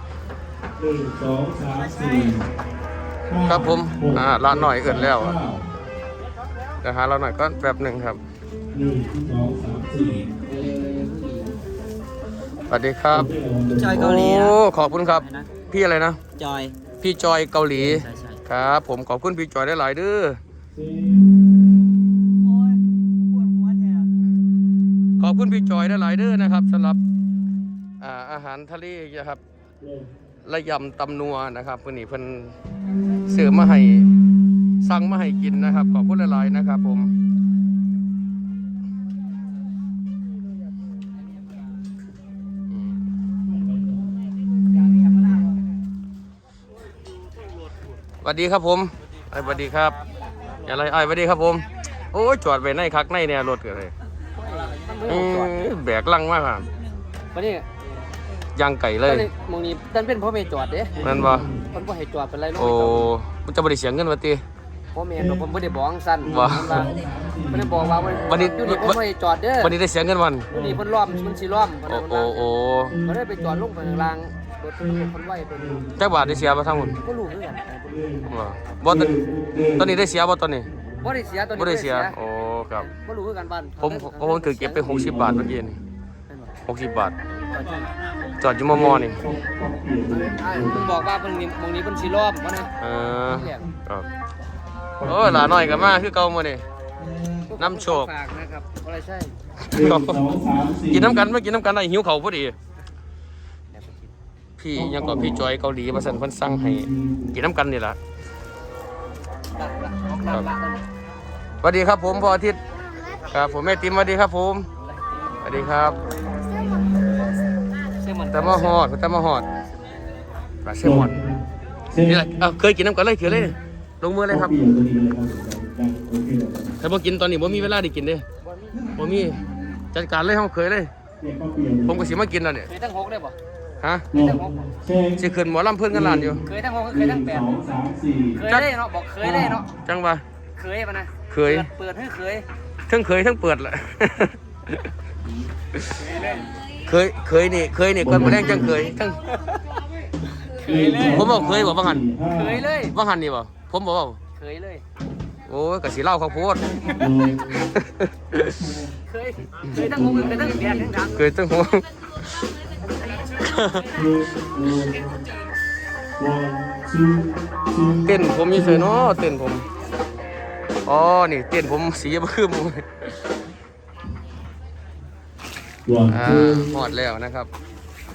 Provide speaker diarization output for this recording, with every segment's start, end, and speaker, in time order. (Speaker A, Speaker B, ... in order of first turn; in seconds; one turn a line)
Speaker A: 0.8-2.5
Speaker A: 3.3-5.7
Speaker B: 3.5-5.4
Speaker B: 6.8-8.2
Speaker A: 8.7-10.3
Speaker C: 10.5-11.5
Speaker B: 12.7-13.3
Speaker A: 13.1-14.3
Speaker C: 13.8-14.6
Speaker B: 13.9-16.2
Speaker C: 15.2-15.5
Speaker C: 16.4-16.8
Speaker B: 16.9-20.4
Speaker C: 18.1-18.4
Speaker A: 20.7-21.3
Speaker B: 25.2-27.0
Speaker B: 28.0-29.4
Speaker A: 29.8-30.1
Speaker B: 30.4-32.5
Speaker B: 33.3-34.1
Speaker B: 34.8-37.1
Speaker B: 42.7-43.0
Speaker B: 48.2-50.0
Speaker B: 50.6-53.9
Speaker C: 54.4-55.7
Speaker B: 55.1-56.7
Speaker C: 57.3-57.7
Speaker B: 58.5-59.3
Speaker C: 59.0-61.0
Speaker A: 60.9-61.7
Speaker B: 61.0-61.5
Speaker C: 61.7-63.1
Speaker B: 62.6-64.4
Speaker C: 64.9-69.7
Speaker A: 65.2-65.5
Speaker A: 66.2-68.4
Speaker B: 66.3-66.8
Speaker B: 68.2-69.0
Speaker B: 69.6-70.5
Speaker A: 70.5-71.4
Speaker C: 70.5-72.4
Speaker B: 71.9-73.0
Speaker A: 72.9-77.0
Speaker C: 73.1-75.9
Speaker B: 76.0-77.0
Speaker C: 77.0-77.9
Speaker A: 77.8-78.3
Speaker B: 78.3-79.1
Speaker A: 78.9-80.0
Speaker B: 79.8-80.7
Speaker A: 80.7-81.1
Speaker C: 81.0-82.2
Speaker B: 81.5-82.9
Speaker C: 82.9-85.0
Speaker B: 83.8-85.8
Speaker A: 84.8-85.6
Speaker C: 86.3-86.5
Speaker B: 86.7-87.1
Speaker C: 87.5-87.9
Speaker B: 88.4-89.2
Speaker A: 88.7-90.9
Speaker C: 90.2-93.7
Speaker B: 92.8-94.1
Speaker A: 95.0-96.1
Speaker B: 95.0-96.6
Speaker C: 97.0-99.3
Speaker B: 97.6-98.1
Speaker B: 99.6-100.2
Speaker A: 99.7-101.2
Speaker B: 100.9-102.5
Speaker C: 103.7-104.1
Speaker B: 104.6-108.0
Speaker A: 104.7-107.3
Speaker C: 109.5-110.8
Speaker B: 111.6-112.6
Speaker B: 113.3-114.7
Speaker B: 115.4-116.0
Speaker C: 118.0-118.8
Speaker B: 118.3-119.5
Speaker B: 120.6-121.2
Speaker A: 120.8-122.4
Speaker B: 122.1-124.5
Speaker A: 123.2-123.5
Speaker A: 124.3-126.8
Speaker B: 126.8-128.2
Speaker C: 128.7-129.0
Speaker B: 129.0-129.4
Speaker B: 129.9-130.9
Speaker A: 131.2-132.1
Speaker B: 131.9-132.7
Speaker C: 132.7-133.3
Speaker B: 133.8-134.1
Speaker A: 134.1-135.2
Speaker C: 134.1-134.7
Speaker B: 135.2-136.4
Speaker A: 135.9-138.4
Speaker C: 136.4-137.5
Speaker C: 138.4-139.7
Speaker A: 139.2-139.6
Speaker B: 139.8-140.2
Speaker C: 140.6-142.4
Speaker B: 141.3-141.7
Speaker B: 142.9-144.9
Speaker C: 146.0-146.5
Speaker B: 146.8-149.2
Speaker A: 148.0-148.9
Speaker C: 150.5-151.3
Speaker A: 150.6-152.7
Speaker B: 151.1-152.0
Speaker C: 152.3-152.9
Speaker B: 152.9-154.2
Speaker C: 154.4-154.8
Speaker B: 155.5-157.0
Speaker A: 156.9-157.7
Speaker B: 157.7-158.6
Speaker C: 159.1-161.2
Speaker A: 159.7-161.3
Speaker B: 161.1-161.8
Speaker B: 163.4-163.9
Speaker A: 163.9-165.2
Speaker A: 166.2-169.0
Speaker B: 168.1-169.7
Speaker B: 170.9-173.2
Speaker A: 175.9-176.8
Speaker B: 176.1-177.5